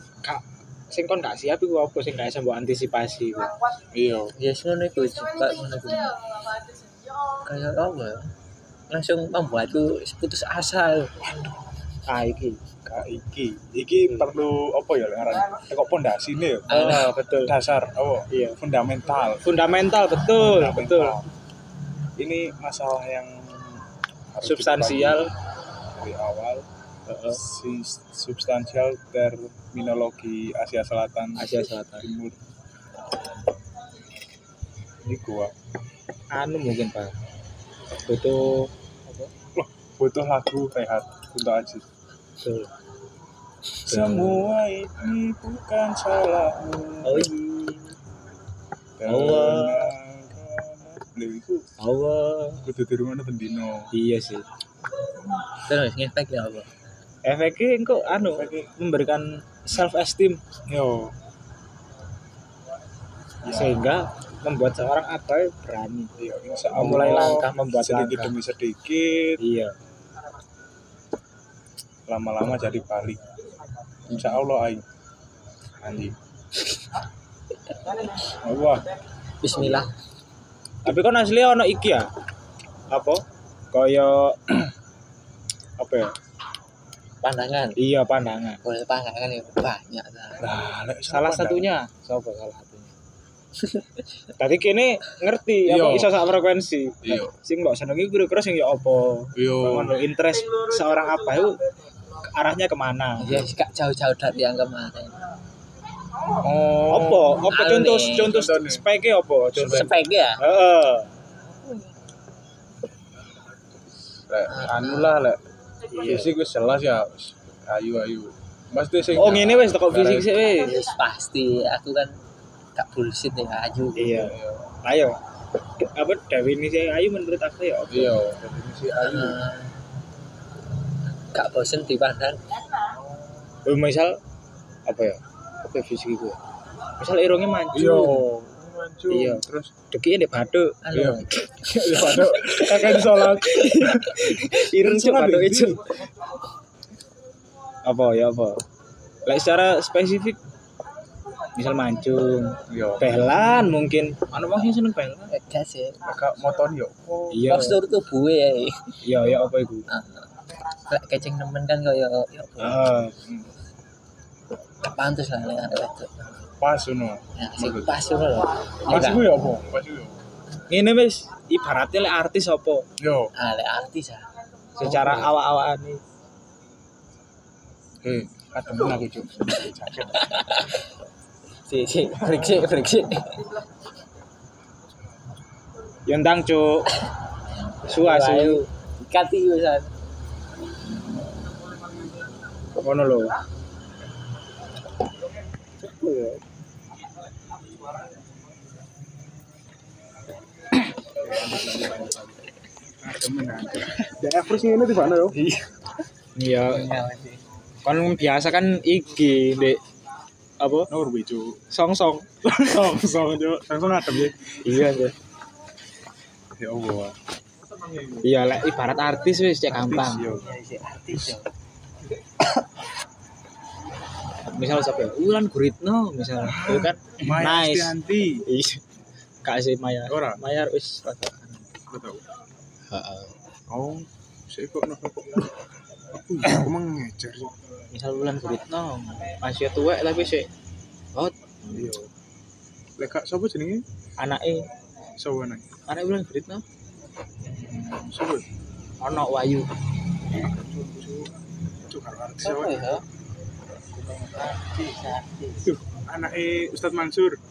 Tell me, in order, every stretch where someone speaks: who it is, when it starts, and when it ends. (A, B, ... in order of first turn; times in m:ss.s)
0:00.2-0:03.5 A
0:03.9-0:04.3 B
0:04.4-0:06.2 C
0:07.4-0:08.3 C
0:08.9-0:11.1 C
0:12.1-0:12.6 A
0:12.8-0:19.4 B
0:16.7-0:17.5 A
0:16.7-0:17.1 C
0:18.3-0:18.6 A
0:19.4-0:21.2 A
0:20.3-0:21.3 B
0:22.2-0:25.3 B
0:24.4-0:25.3 A
0:26.0-0:26.7 B
0:27.1-0:27.4 A
0:27.3-0:32.4 B
0:31.4-0:32.1 A
0:35.0-0:35.5 B
0:36.3-0:37.1 A
0:38.0-0:39.3 A
0:39.6-0:41.8 B
0:42.4-0:42.7 A
0:43.9-0:44.5 A
0:43.9-0:47.3 B
0:47.0-0:47.9 C
0:49.0-0:51.6 B
0:49.0-0:49.9 A
0:51.8-0:52.6 A
0:52.6-0:53.9 B
0:53.9-0:54.4 A
0:55.6-0:56.7 C
0:57.2-1:00.4 A
0:58.3-0:58.7 B
1:00.7-1:01.1 B
1:03.4-1:03.8 B
1:03.5-1:06.1 A
1:06.2-1:09.4 B
1:06.7-1:08.3 A
1:09.4-1:09.7 A
1:12.1-1:13.2 B
1:14.1-1:14.8 B
1:15.8-1:16.2 B
1:18.3-1:18.8 B
1:19.4-1:19.9 C
1:20.8-1:22.1 A
1:22.9-1:24.4 A
1:25.8-1:26.1 A
1:27.2-1:27.8 C
1:27.8-1:28.6 A
1:28.6-1:30.5 C
1:30.4-1:31.7 B
1:31.1-1:32.9 A
1:34.4-1:41.6 A
1:35.7-1:36.1 B
1:37.0-1:37.3 B
1:39.4-1:39.9 B
1:42.2-1:43.4 A
1:43.2-1:45.2 C
1:46.4-1:47.5 B
1:46.9-1:51.1 A
1:47.4-1:48.4 C
1:48.2-1:48.8 B
1:49.6-1:50.4 C
1:51.5-1:51.9 C
1:54.3-2:00.4 B
1:54.5-1:55.1 C
1:59.1-2:00.8 A
2:00.6-2:02.2 C
2:02.8-2:04.3 C
2:04.0-2:05.2 A
2:04.2-2:04.6 B
2:05.8-2:08.3 A
2:07.9-2:09.4 B
2:09.0-2:09.8 C
2:11.3-2:12.4 C
2:13.6-2:14.2 A
2:14.9-2:16.4 A
2:17.0-2:18.2 A
2:17.7-2:19.7 B
2:19.1-2:20.8 A
2:20.8-2:21.3 C
2:20.9-2:25.9 B
2:21.7-2:25.8 A
2:27.8-2:28.6 A
2:29.3-2:30.4 A
2:31.6-2:35.3 A
2:32.7-2:33.2 B
2:35.3-2:36.0 C
2:36.0-2:37.5 B
2:37.3-2:37.8 A
2:37.5-2:38.9 C
2:39.0-2:39.9 A
2:39.9-2:40.2 C
2:40.9-2:42.9 C
2:42.6-2:43.2 A
2:43.2-2:43.5 B
2:44.8-2:46.2 C
2:46.6-2:48.0 B
2:47.4-2:49.3 C
2:48.9-2:50.2 B
2:50.7-2:52.9 A
2:53.0-2:53.3 B
2:53.4-2:54.2 C
2:54.8-2:56.0 A
2:54.8-2:55.3 C
2:58.0-3:00.3 B
3:00.3-3:00.6 C
3:01.7-3:03.5 C
3:06.1-3:07.0 A
3:07.9-3:08.7 A
3:07.9-3:09.9 C
3:12.8-3:13.4 A
3:16.0-3:16.3 A
3:21.2-3:22.4 B
3:23.0-3:25.4 B
3:25.3-3:25.6 C
3:26.4-3:26.9 A
3:26.6-3:27.4 C
3:27.8-3:29.8 A
3:30.6-3:30.9 A
3:30.9-3:31.6 B
3:31.7-3:32.3 A
3:32.4-3:34.4 B
3:34.6-3:35.2 A
3:36.6-3:37.2 B
3:38.2-3:40.3 A
3:39.7-3:40.5 B
3:40.4-3:41.5 C
3:44.6-3:48.8 A
3:46.4-3:48.4 B
3:49.4-3:51.6 A
3:50.1-3:50.4 B
3:51.9-3:52.2 B
3:52.9-3:53.2 C
3:53.7-3:55.5 B
3:56.1-3:57.5 B
3:57.9-4:00.5 A
4:01.7-4:02.1 B
4:03.0-4:03.8 B
4:04.2-4:04.6 A
4:05.2-4:05.7 B
4:05.9-4:06.6 A
4:07.9-4:08.5 B
4:09.0-4:09.7 A
4:10.3-4:11.3 B
4:11.9-4:12.9 B
4:12.4-4:13.0 C
4:14.2-4:15.7 C
4:15.7-4:17.4 B